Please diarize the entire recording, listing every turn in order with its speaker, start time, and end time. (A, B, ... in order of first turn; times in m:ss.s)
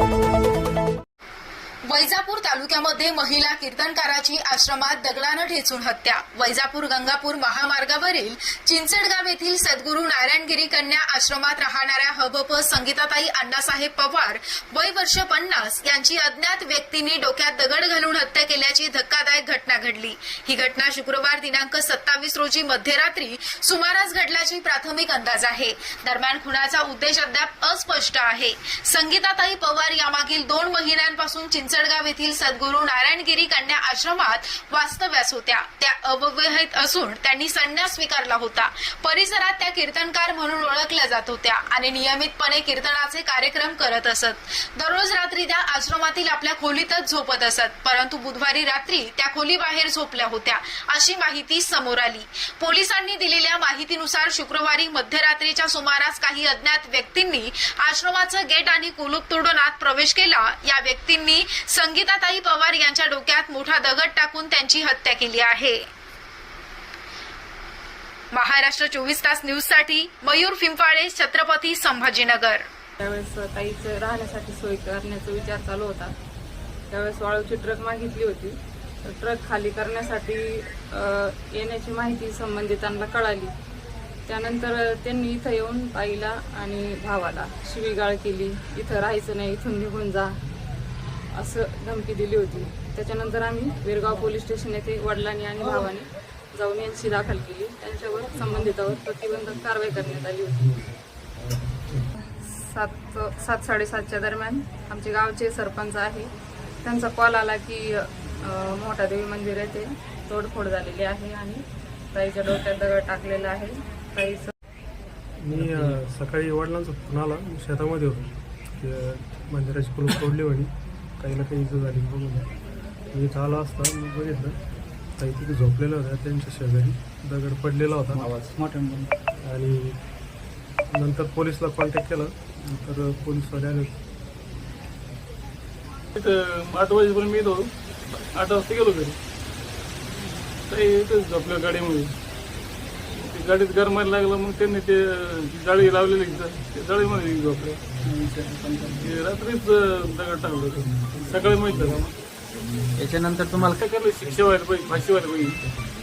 0:01.9-1:05.8 A
1:08.3-1:12.7 A
1:13.0-1:16.2 B
1:16.9-1:23.5 B
1:24.3-1:30.4 B
1:31.3-1:40.7 B
1:42.4-1:46.3 B
1:46.8-1:54.5 B
1:55.4-2:02.5 C
1:55.6-1:56.0 D
2:03.1-2:04.6 C
2:05.2-2:08.2 C
2:08.2-2:09.1 D
2:09.4-2:10.0 C
2:10.9-2:14.0 C
2:16.2-2:17.7 E
2:18.4-2:19.2 E
2:20.7-2:22.2 E
2:23.2-2:27.8 E
2:28.0-2:29.3 D
2:29.0-2:32.1 E
2:33.0-2:33.8 D
2:33.8-2:35.6 E